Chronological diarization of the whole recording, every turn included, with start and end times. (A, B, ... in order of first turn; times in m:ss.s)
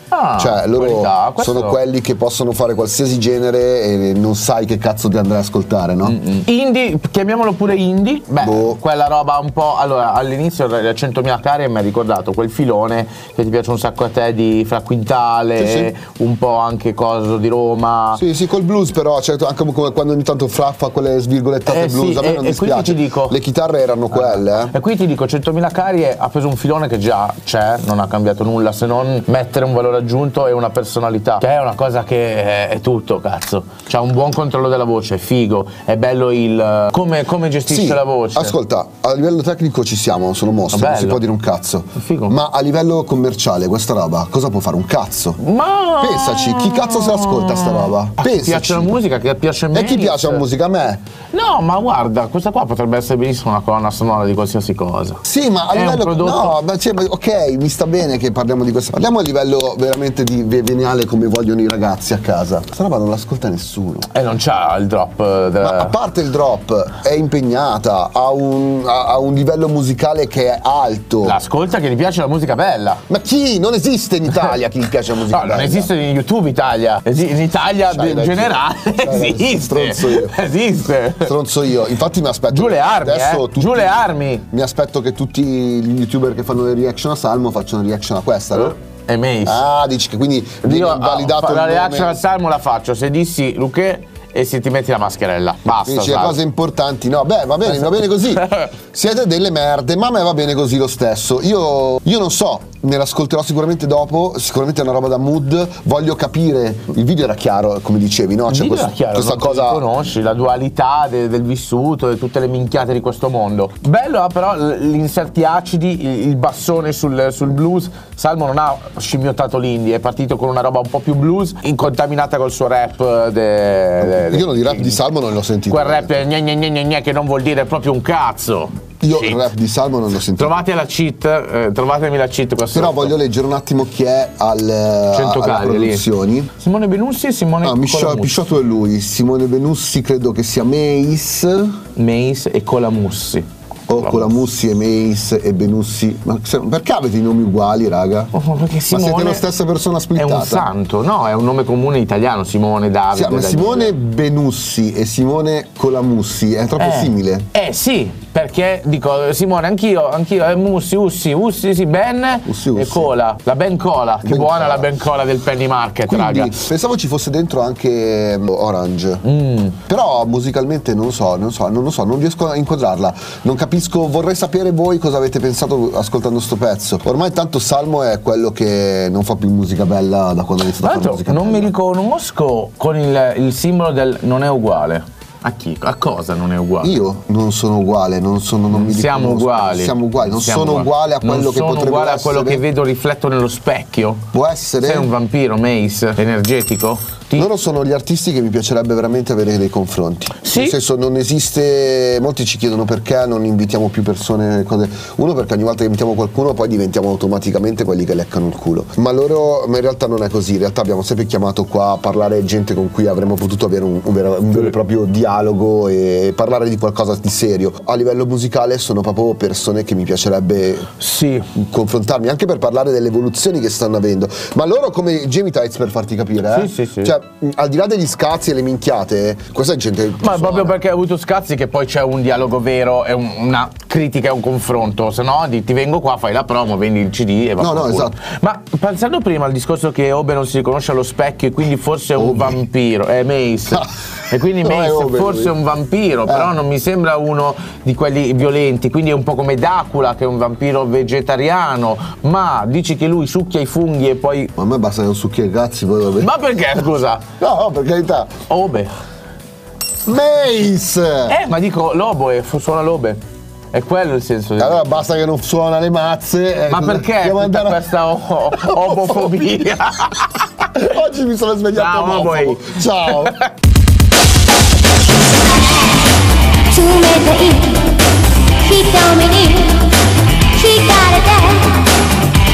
0:00.1-0:01.8 A
0:00.4-0:06.2 B
0:06.0-0:18.2 A
0:08.4-0:08.8 B
0:15.6-0:15.9 B
0:18.1-0:24.7 B
0:21.7-0:23.4 A
0:24.1-0:38.5 A
0:37.7-0:45.4 B
0:40.7-0:41.2 A
0:42.0-0:42.4 A
0:45.4-0:50.4 A
0:46.0-0:48.9 B
0:49.7-0:51.0 B
0:51.3-0:55.2 A
0:55.2-1:04.1 B
0:55.7-0:56.6 A
1:04.1-1:06.0 A
1:05.6-1:11.4 B
1:11.2-1:13.0 A
1:13.1-1:15.9 B
1:15.3-1:21.3 A
1:17.9-1:20.4 B
1:21.2-1:28.8 B
1:22.5-1:24.4 A
1:28.5-1:29.6 A
1:29.4-1:32.2 B
1:30.6-1:36.4 A
1:35.8-1:49.8 B
1:37.8-1:38.7 A
1:48.5-2:05.0 A
2:04.0-2:06.1 B
2:05.7-2:09.5 A
2:09.0-2:10.6 B
2:10.4-2:13.1 A
2:12.7-2:16.5 B
2:15.1-2:16.0 A
2:16.6-2:18.4 A
2:17.6-2:21.8 B
2:22.0-2:24.3 A
2:23.9-2:28.3 B
2:28.3-2:29.4 A
2:28.9-2:30.7 B
2:30.2-2:33.9 A
2:33.1-2:37.5 B
2:36.8-2:46.6 A
2:42.4-2:43.1 B
2:44.2-2:44.9 B
2:46.1-2:49.2 B
2:49.2-2:49.8 A
2:49.8-3:01.7 B
3:00.8-3:06.9 A
3:06.8-3:12.6 B
3:08.7-3:14.2 A
3:14.3-3:15.1 B
3:14.8-3:17.5 A
3:17.4-3:40.9 B
3:20.4-3:20.8 A
3:41.0-3:41.5 A
3:41.5-3:50.8 B
3:46.4-3:47.1 A
3:50.2-4:14.5 A
3:57.6-3:58.2 B
4:02.2-4:02.6 B
4:04.6-4:05.5 B
4:06.3-4:06.5 B
4:14.6-4:16.3 B
4:16.2-4:17.2 A
4:17.4-4:18.3 B
4:18.5-4:18.9 A
4:20.0-4:21.3 B
4:21.3-4:23.2 A
4:23.7-4:25.0 A
4:24.6-4:27.9 B
4:26.7-4:30.7 A
4:28.5-4:29.5 B
4:30.6-4:33.4 B
4:31.7-4:33.5 A
4:35.2-4:36.1 C
4:36.7-4:38.0 C
4:38.6-4:40.0 C
4:40.5-4:41.9 C